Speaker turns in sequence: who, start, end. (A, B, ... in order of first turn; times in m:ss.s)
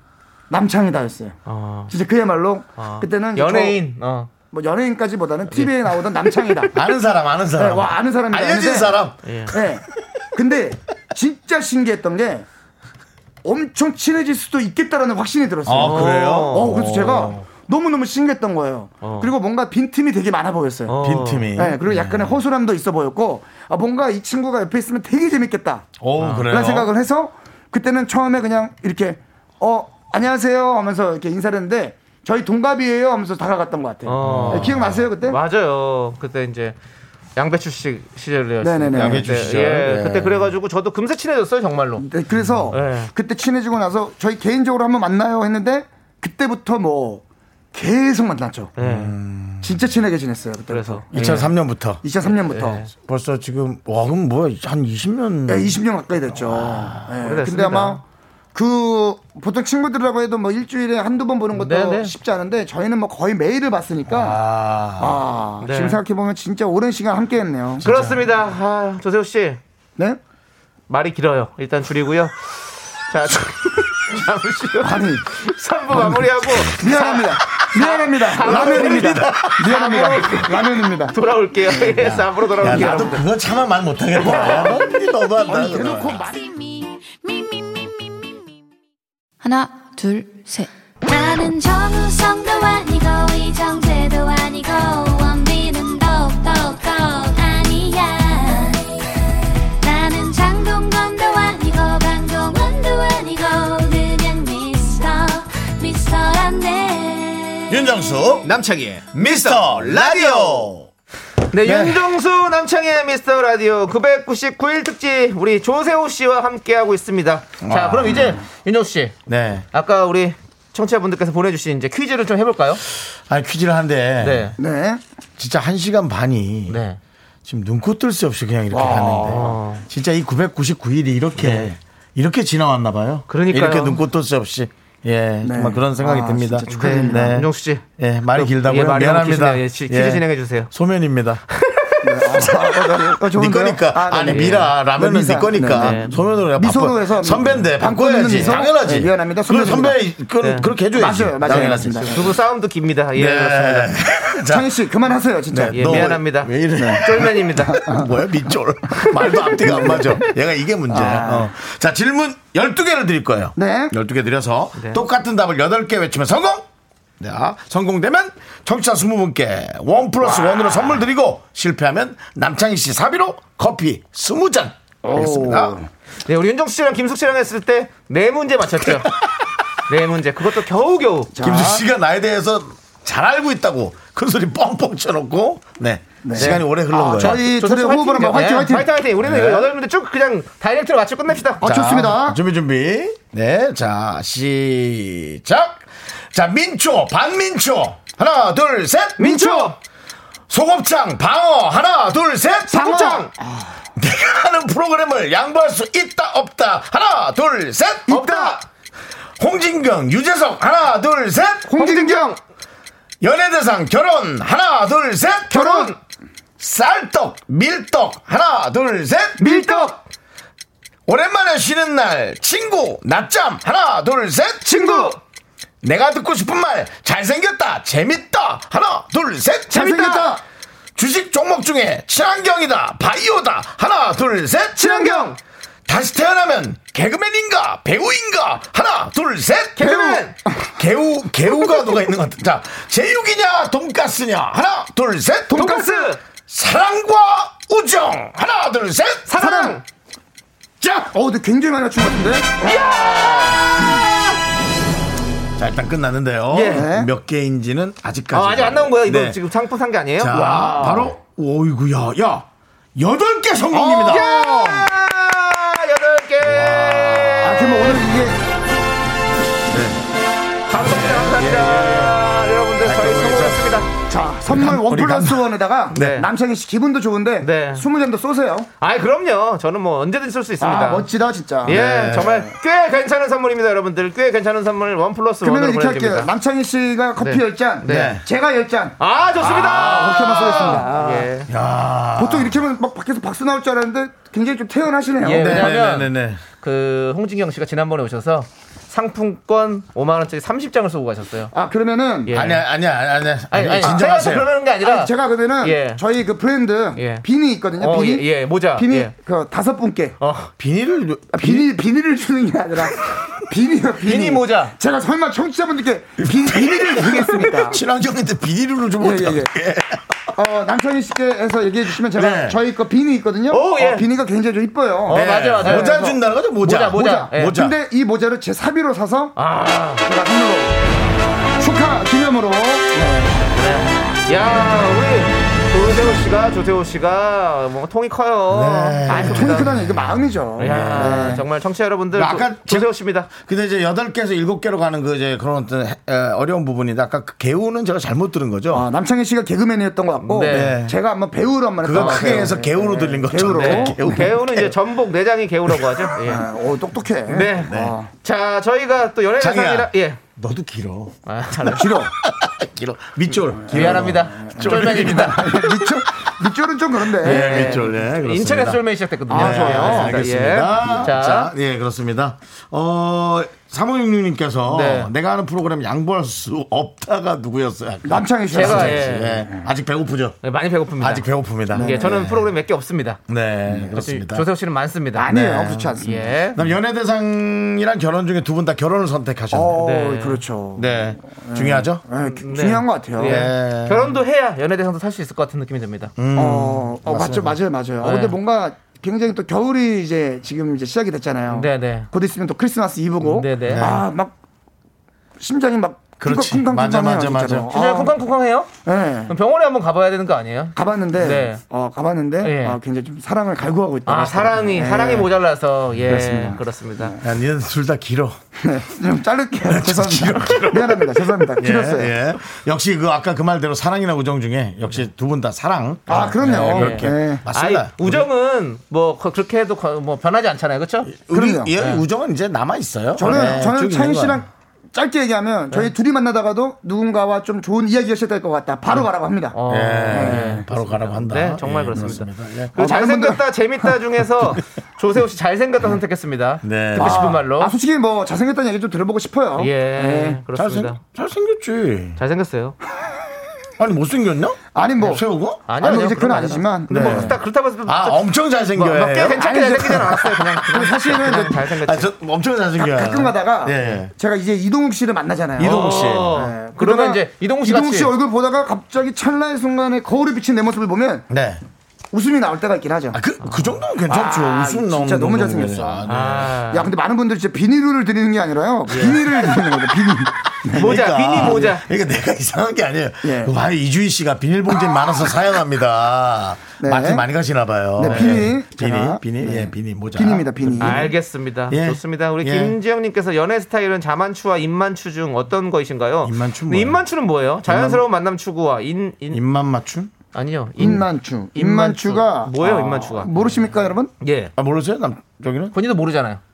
0:00.5-0:01.4 A
0:01.4-0:01.9 B
0:01.9-0:03.8 A
0:02.8-0:04.3 B
0:04.4-0:06.8 A
0:05.5-0:06.6 B
0:06.7-0:09.2 C
0:07.6-0:09.8 A
0:09.2-0:09.5 B
0:10.3-0:12.4 A
0:13.4-0:21.0 A
0:15.6-0:17.4 C
0:15.8-0:17.0 B
0:19.0-0:19.3 B
0:20.9-0:21.5 B
0:21.0-0:22.2 C
0:21.6-0:25.9 A
0:26.0-0:26.9 C
0:26.2-0:26.6 B
0:26.5-0:35.4 A
0:34.0-0:36.8 B
0:34.2-0:35.1 C
0:37.4-0:42.0 B
0:38.6-0:39.4 A
0:38.9-0:40.4 C
0:42.0-0:47.2 A
0:42.3-0:42.6 C
0:42.7-0:43.1 B
0:47.7-0:48.7 A
0:48.8-0:49.1 B
0:48.8-0:49.7 C
0:49.6-0:51.5 A
0:50.7-0:51.5 B
0:51.1-0:52.0 C
0:52.0-0:52.9 A
0:52.3-0:52.9 B
0:52.9-0:55.7 C
0:55.5-0:58.0 A
0:56.4-0:57.1 C
0:57.2-0:58.0 B
0:58.5-1:04.4 A
1:01.5-1:02.1 B
1:04.1-1:05.2 C
1:05.0-1:07.8 A
1:05.6-1:06.0 B
1:07.8-1:08.2 C
1:07.8-1:09.6 B
1:10.9-1:12.6 B
1:13.1-1:23.2 B
1:14.8-1:15.2 A
1:16.7-1:21.1 A
1:18.4-1:20.1 C
1:21.7-1:26.2 C
1:22.7-1:23.1 A
1:24.2-1:24.8 B
1:24.2-1:24.9 A
1:25.4-1:26.4 A
1:26.2-1:28.4 D
1:29.4-1:30.7 D
1:31.0-1:38.8 E
1:39.8-1:47.8 E
1:47.7-1:48.4 C
1:48.4-1:50.7 B
1:49.1-1:50.9 C
1:51.5-1:59.2 B
1:51.6-1:52.0 C
1:57.6-1:58.4 C
1:59.3-1:59.6 C
1:59.7-2:02.8 B
2:03.3-2:04.5 C
2:04.2-2:04.6 B
2:04.6-2:05.0 A
2:05.4-2:06.8 C
2:06.7-2:07.0 B
2:07.4-2:21.4 C
2:08.7-2:09.5 A
2:08.8-2:09.8 B
2:11.4-2:11.7 B
2:13.3-2:14.0 B
2:15.4-2:17.4 A
2:16.7-2:20.7 B
2:21.5-2:22.5 B
2:22.0-2:30.0 A
2:23.3-2:32.2 C
2:24.2-2:24.7 B
2:25.6-2:26.2 B
2:28.2-2:28.6 B
2:30.4-2:30.8 B
2:30.8-2:32.3 A
2:31.4-2:34.0 B
2:33.1-2:34.7 C
2:34.5-2:36.1 A
2:35.5-2:46.6 C
2:35.7-2:37.8 B
2:36.8-2:37.0 A
2:37.6-2:38.1 A
2:38.9-2:39.3 B
2:39.6-2:40.2 A
2:40.9-2:41.5 A
2:43.6-2:43.9 A
2:44.7-2:45.0 B
2:47.2-2:55.8 C
2:50.2-2:50.8 A
2:55.0-2:55.9 A
2:56.2-2:59.1 B
2:59.9-3:01.3 B
3:01.4-3:01.8 A
3:01.4-3:07.4 C
3:06.2-3:08.9 A
3:06.3-3:11.7 B
3:09.2-3:09.7 C
3:11.6-3:12.4 A
3:11.6-3:19.4 C
3:19.2-3:19.8 B
3:19.2-3:19.7 A
3:20.5-3:23.2 C
3:22.7-3:23.8 A
3:22.7-3:23.3 B
3:24.0-3:28.6 C
3:28.1-3:28.6 A
3:29.4-3:31.7 C
3:31.7-3:32.4 A
3:31.8-3:32.4 B
3:33.2-3:35.9 C
3:35.5-3:35.9 A
3:36.6-3:39.7 C
3:39.4-3:40.0 B
3:39.4-3:39.9 A
3:41.1-3:45.1 C
3:44.6-3:45.2 B
3:44.7-3:45.1 A
3:45.8-3:50.2 C
3:49.7-3:50.2 B
3:49.7-3:50.4 A
3:51.0-3:55.2 C
3:54.8-3:55.4 B
3:54.8-3:55.3 A
3:55.9-3:59.9 C
3:59.8-4:00.4 B
3:59.8-4:00.6 A
4:00.8-4:05.7 C
4:05.5-4:06.1 A
4:05.5-4:06.2 B
4:06.4-4:09.3 C
4:09.3-4:09.8 B
4:09.4-4:09.8 A
4:10.8-4:14.0 A
4:12.6-4:13.0 B
4:12.9-4:13.9 C
4:15.6-4:19.4 C
4:16.5-4:16.9 B
4:16.7-4:17.1 A
4:18.3-4:21.1 B
4:20.2-4:24.4 C
4:23.7-4:24.8 A
4:23.8-4:28.0 B
4:26.4-4:27.6 C
4:27.4-4:28.4 A
4:29.7-4:30.0 C
4:30.7-4:33.9 B
4:30.8-4:32.2 C
4:32.8-4:33.6 C
4:34.1-4:38.7 A
4:34.4-4:36.2 C
4:35.9-4:36.3 B
4:37.4-4:37.8 B
4:38.8-4:41.1 B
4:40.6-4:42.5 A
4:41.6-4:42.4 C
4:41.6-4:46.3 B
4:45.4-4:49.0 A
4:47.2-4:48.2 B
4:47.8-4:48.2 C
4:49.0-4:51.5 B
4:49.4-4:50.8 C
4:49.6-4:51.3 A
4:51.5-4:52.6 C
4:52.2-4:55.7 A
4:55.2-5:01.5 B
4:55.3-4:56.4 C
5:01.5-5:02.3 A
5:02.3-5:02.6 B
5:02.3-5:04.5 C
5:03.5-5:06.0 B
5:04.8-5:10.2 A
5:07.0-5:07.2 B
5:07.8-5:09.1 B
5:10.2-5:10.5 B
5:10.6-5:11.7 C
5:11.3-5:17.8 A
5:14.0-5:14.7 B
5:16.2-5:20.0 C
5:19.0-5:19.5 A
5:20.3-5:26.2 A
5:22.1-5:22.6 C
5:23.5-5:24.1 B
5:25.1-5:26.0 B
5:25.1-5:27.7 C
5:26.6-5:27.6 B
5:26.9-5:29.4 A
5:29.4-5:30.0 B
5:30.0-5:30.8 A
5:31.6-5:33.4 A
5:33.6-5:39.8 B
5:38.5-5:41.4 C
5:39.1-5:41.4 A
5:40.6-5:43.3 B
5:42.1-5:48.8 C
5:48.7-5:54.2 A
5:50.2-5:50.8 B
5:50.4-5:50.9 C
5:51.8-5:54.7 C
5:51.9-5:52.5 B
5:53.4-5:56.5 B
5:56.2-5:58.1 A
5:57.3-6:00.2 B
5:59.4-6:01.1 C
6:01.2-6:01.9 B
6:01.7-6:02.1 A
6:02.2-6:05.8 C
6:03.6-6:07.7 A
6:03.6-6:05.5 B
6:07.2-6:20.4 C
6:07.2-6:11.5 B
6:09.3-6:10.2 A
6:14.7-6:15.1 B
6:18.0-6:19.7 A
6:18.5-6:19.4 B
6:20.4-6:23.2 B
6:21.0-6:22.2 C
6:21.7-6:22.4 A
6:23.3-6:24.4 C
6:23.9-6:26.6 B
6:25.1-6:26.4 A
6:26.5-6:29.8 C
6:29.5-6:33.4 A
6:29.8-6:30.4 B
6:30.8-6:32.0 C
6:32.1-6:36.1 B
6:33.2-6:34.1 C
6:36.2-6:37.6 C
6:36.3-6:44.3 A
6:38.0-6:38.4 B
6:41.5-6:42.1 B
6:43.2-6:44.0 B
6:43.6-6:44.0 C
6:45.4-6:48.1 A
6:46.2-6:47.7 C
6:47.7-6:48.7 B
6:48.8-6:49.3 A
6:49.3-6:51.6 B
6:50.7-6:55.3 A
6:52.4-6:52.8 B
6:54.0-6:57.1 B
6:56.1-6:57.2 A
6:57.2-6:58.4 C
6:58.6-7:02.2 A
6:59.7-7:08.2 C
7:06.1-7:07.4 A
7:06.1-7:11.1 B
7:11.1-7:14.4 C
7:11.3-7:11.8 A
7:11.8-7:12.0 B
7:13.2-7:19.6 A
7:18.9-7:27.7 B
7:19.6-7:22.8 C
7:20.1-7:20.6 A
7:22.8-7:23.9 A
7:26.6-7:27.4 C
7:27.0-7:30.4 A
7:29.6-7:31.0 B
7:30.5-7:32.2 C
7:32.2-7:32.8 B
7:33.8-7:35.7 C
7:34.7-7:37.4 A
7:35.7-7:42.1 B
7:36.9-7:44.1 C
7:39.3-7:41.6 A
7:42.8-7:51.2 A
7:45.6-7:46.4 C
7:45.6-7:48.1 B
7:51.3-7:51.6 C
7:52.1-7:53.2 A
7:53.1-7:56.6 C
7:53.4-7:53.8 B
7:54.1-7:56.1 A
7:56.0-7:56.9 B
7:56.7-8:01.5 A
7:58.9-7:59.5 B
8:00.7-8:01.8 B
8:00.8-8:11.1 C
8:03.2-8:03.5 A
8:06.8-8:07.3 A
8:08.0-8:11.1 A
8:08.0-8:08.3 B
8:10.8-8:19.4 B
8:11.7-8:12.8 C
8:16.2-8:17.0 C
8:17.7-8:18.0 A
8:19.3-8:20.1 C
8:20.3-8:24.5 B
8:20.8-8:24.1 A
8:24.6-8:25.7 C
8:25.7-8:26.4 B